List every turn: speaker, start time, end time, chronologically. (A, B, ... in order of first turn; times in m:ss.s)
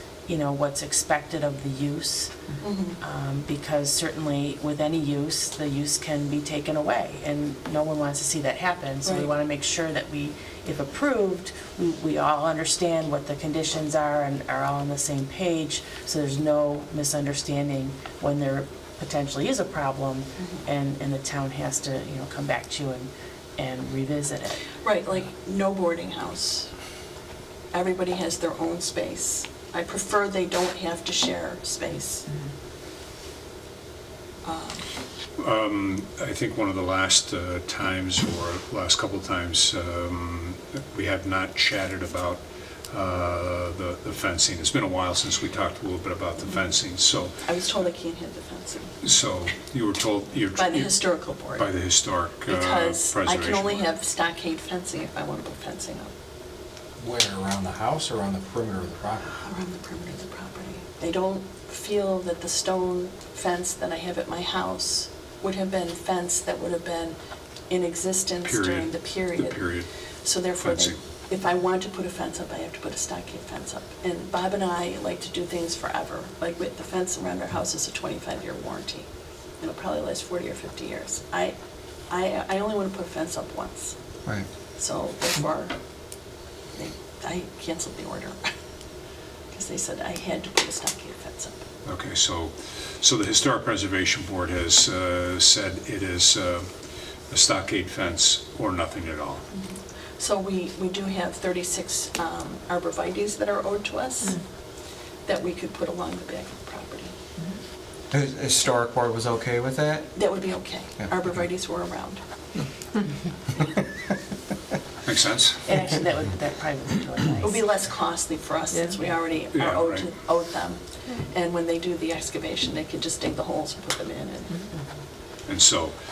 0:00.2-0:02.4 A
0:02.6-0:03.0 B
0:03.0-0:24.7 A
0:09.0-0:09.3 B
0:20.4-0:20.6 B
0:24.8-0:26.7 B
0:27.7-0:32.2 B
0:34.4-0:34.8 B
0:35.4-0:47.3 C
0:47.4-0:49.0 B
0:49.0-0:53.9 C
0:50.6-0:51.7 B
0:52.5-0:56.1 B
0:57.0-0:59.3 D
0:59.2-1:07.2 B
1:07.7-1:09.6 B
1:08.4-1:09.9 C
1:10.2-1:19.1 B
1:10.6-1:11.0 C
1:19.6-1:21.5 B
1:22.1-1:23.9 B
1:24.8-1:25.7 B
1:26.7-1:28.4 B
1:29.5-1:31.6 B
1:31.8-1:36.7 C
1:37.3-1:39.4 C
1:39.5-1:44.4 B
1:45.2-1:47.1 B
1:48.1-1:50.1 E
1:50.1-1:52.2 B
1:55.0-1:55.6 C
1:55.6-1:57.6 A
1:57.4-2:04.6 B
1:59.5-2:00.1 C
2:05.4-2:05.9 C